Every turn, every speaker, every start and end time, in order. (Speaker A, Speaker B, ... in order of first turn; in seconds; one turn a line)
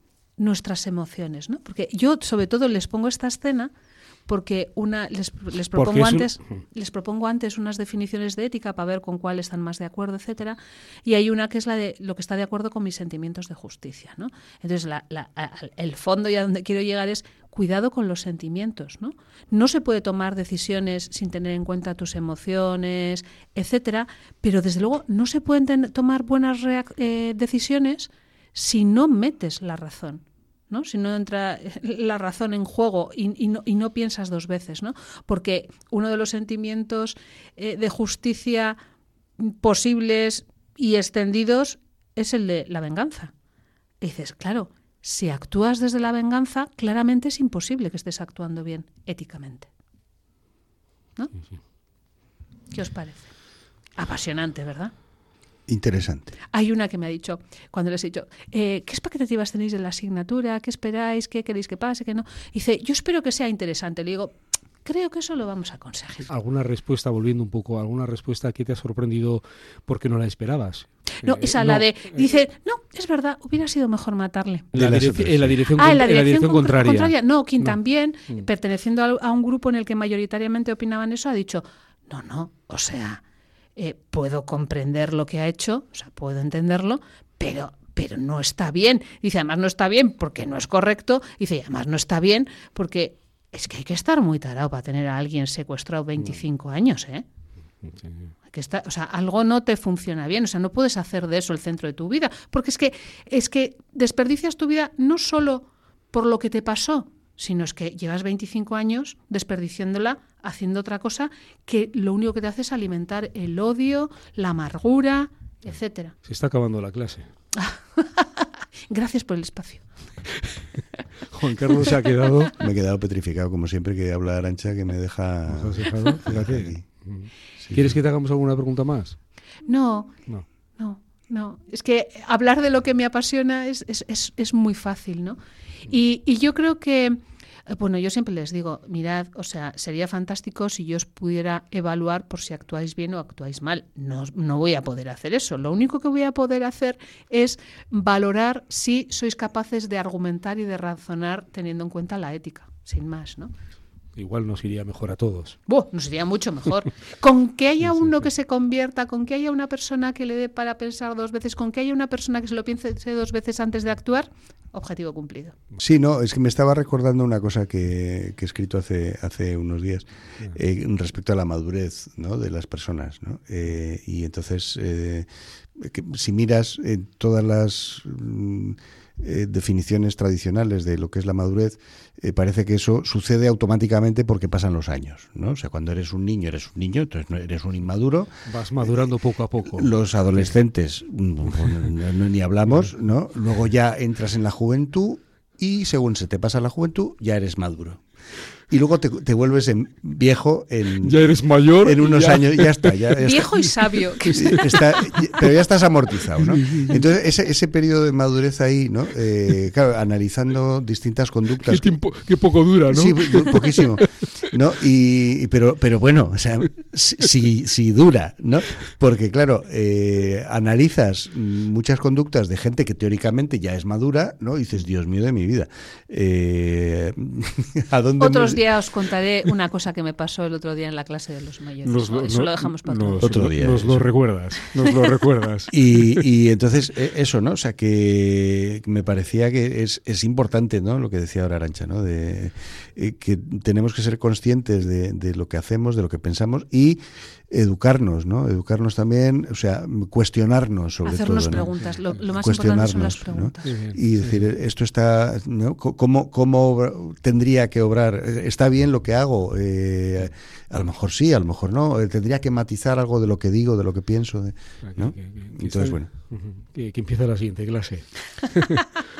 Speaker A: 0.4-3.7
Speaker A: 4.3-38.8
Speaker B: 5.7-6.3
Speaker A: 39.4-43.3
Speaker A: 44.0-49.7
Speaker A: 52.7-53.3
Speaker A: 54.0-54.9
Speaker C: 55.7-56.3
Speaker A: 56.5-66.3
Speaker B: 66.3-71.8
Speaker A: 71.2-74.7
Speaker C: 74.7-75.5
Speaker B: 74.7-77.7
Speaker A: 75.7-83.2
Speaker A: 83.8-97.2
Speaker B: 97.8-98.3
Speaker A: 98.5-116.1
Speaker B: 116.2-117.3
Speaker A: 117.5-119.8
Speaker B: 121.3-122.6
Speaker C: 122.5-126.8
Speaker B: 125.5-129.2
Speaker A: 129.7-130.2
Speaker A: 130.8-135.4
Speaker A: 135.9-153.5
Speaker B: 154.2-155.6
Speaker A: 155.7-165.6
Speaker C: 165.8-189.0
Speaker B: 188.4-189.9
Speaker C: 189.7-198.0
Speaker C: 198.7-203.5
Speaker B: 201.0-203.3
Speaker A: 203.2-204.8
Speaker B: 203.8-205.5
Speaker C: 204.3-212.0
Speaker B: 206.2-207.0
Speaker B: 211.6-214.2
Speaker C: 212.9-228.7
Speaker A: 228.2-233.3
Speaker B: 231.8-236.2
Speaker C: 233.2-234.1
Speaker C: 235.7-251.7
Speaker A: 251.0-253.8
Speaker C: 252.3-266.1
Speaker B: 253.6-254.4
Speaker B: 264.8-268.9